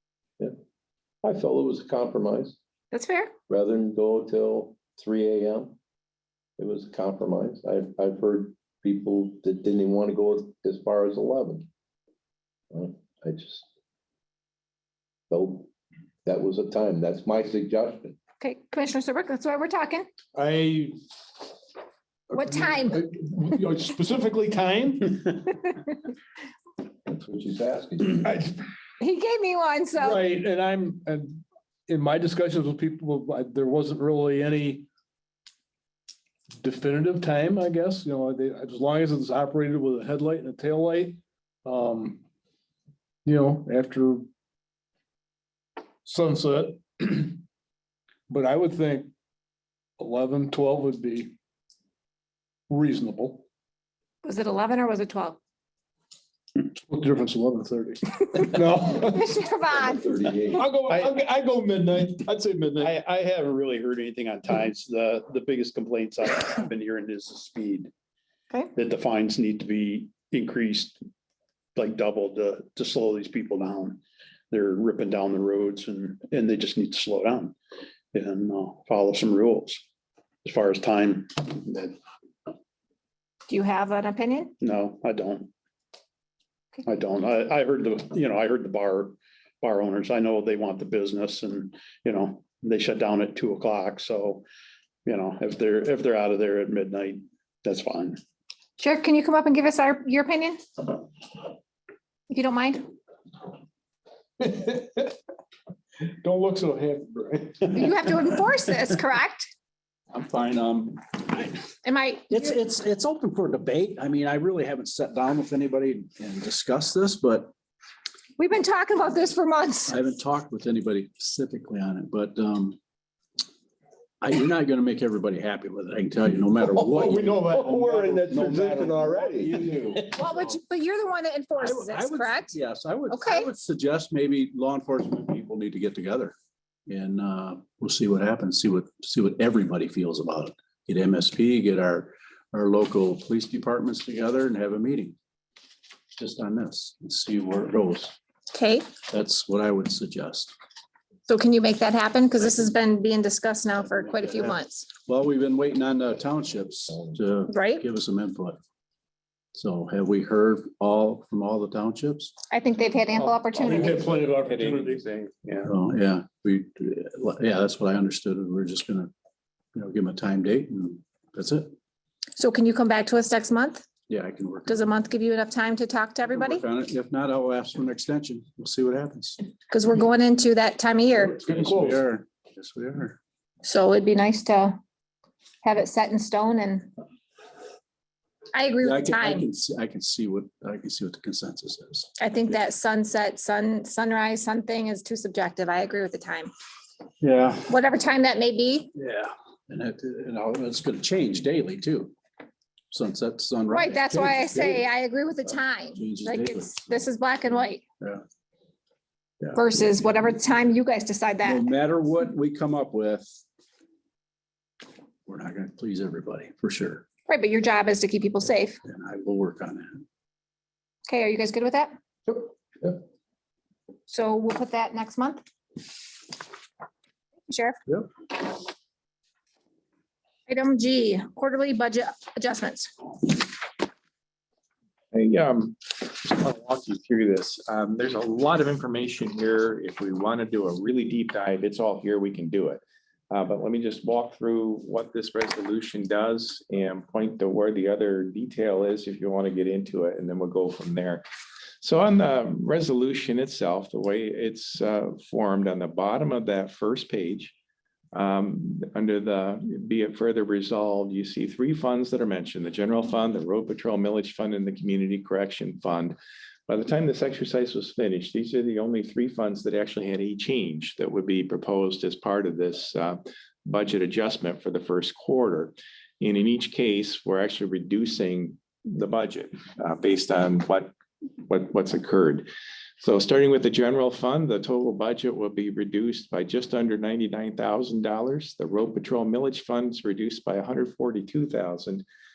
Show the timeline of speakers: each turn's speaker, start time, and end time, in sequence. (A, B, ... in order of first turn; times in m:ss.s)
0:01.2-0:02.6 A
0:02.9-0:03.3 B
0:03.5-0:05.8 A
0:06.6-0:11.7 A
0:12.7-0:13.6 A
0:15.3-0:15.7 A
0:16.2-0:18.2 A
0:18.4-0:20.1 B
0:20.3-0:20.9 C
0:22.3-0:23.0 B
0:22.4-0:25.4 C
0:27.1-0:28.2 A
0:28.2-0:28.6 C
0:29.0-0:30.2 B
0:30.0-0:34.9 C
0:36.6-0:42.2 C
0:43.2-0:44.3 C
0:46.0-0:47.4 C
0:48.3-0:49.1 C
0:50.0-0:51.4 C
0:52.7-0:53.4 C
0:54.2-0:55.4 B
0:56.6-0:59.3 C
0:58.9-1:00.2 B
0:59.7-1:00.7 A
1:00.5-1:03.0 C
1:02.8-1:07.9 D
1:08.7-1:11.0 D
1:11.7-1:17.6 D
1:18.1-1:19.8 D
1:20.4-1:22.0 D
1:23.5-1:24.5 B
1:24.6-1:25.5 D
1:26.8-1:34.4 D
1:35.0-1:38.2 D
1:38.8-1:40.6 B
1:42.3-1:42.8 B
1:44.4-1:45.1 C
1:46.2-1:47.9 C
1:47.7-1:49.5 B
1:50.1-1:51.5 E
1:51.8-1:52.6 B
1:52.3-1:57.5 E
1:58.4-2:00.0 B
1:59.9-2:02.8 E
2:04.2-2:10.6 E
2:06.6-2:09.6 A
2:10.2-2:12.5 B
2:11.6-2:16.3 E
2:13.1-2:13.5 B
2:16.9-2:25.2 E
2:26.1-2:28.2 E
2:28.5-2:28.9 B
2:29.1-2:30.5 E
2:31.3-2:34.9 B
2:33.8-2:38.6 E
2:37.5-2:37.8 B
2:39.5-2:42.3 E
2:42.5-2:44.2 B
2:43.6-2:45.0 C
2:43.6-2:45.7 F
2:45.6-2:49.1 E
2:49.7-2:51.7 E
2:52.4-2:53.8 B
2:54.1-2:54.9 E
2:54.6-2:56.6 B
2:56.2-2:59.4 E
2:59.7-3:01.4 B
3:01.3-3:03.2 E
3:01.4-3:02.0 C
3:03.6-3:04.8 B
3:05.6-3:06.9 B
3:08.5-3:09.5 B
3:08.8-3:12.1 E
3:12.2-3:16.5 B
3:17.2-3:17.7 E
3:17.7-3:18.9 B
3:19.0-3:22.1 E
3:22.9-3:24.9 E
3:23.7-3:27.8 B
3:25.9-3:27.0 E
3:29.5-3:31.6 B
3:31.4-3:33.4 E
3:35.2-3:37.0 E
3:37.3-3:38.8 B
3:38.8-3:40.0 E
3:41.1-3:41.9 B
3:42.3-3:42.9 A
3:44.1-3:45.4 B
3:47.5-3:47.8 B
3:50.5-3:52.9 B
3:55.1-4:11.2 F
4:11.8-4:17.5 F
4:18.1-4:26.2 F
4:26.7-4:40.9 F
4:41.4-4:42.5 F
4:43.0-4:52.0 F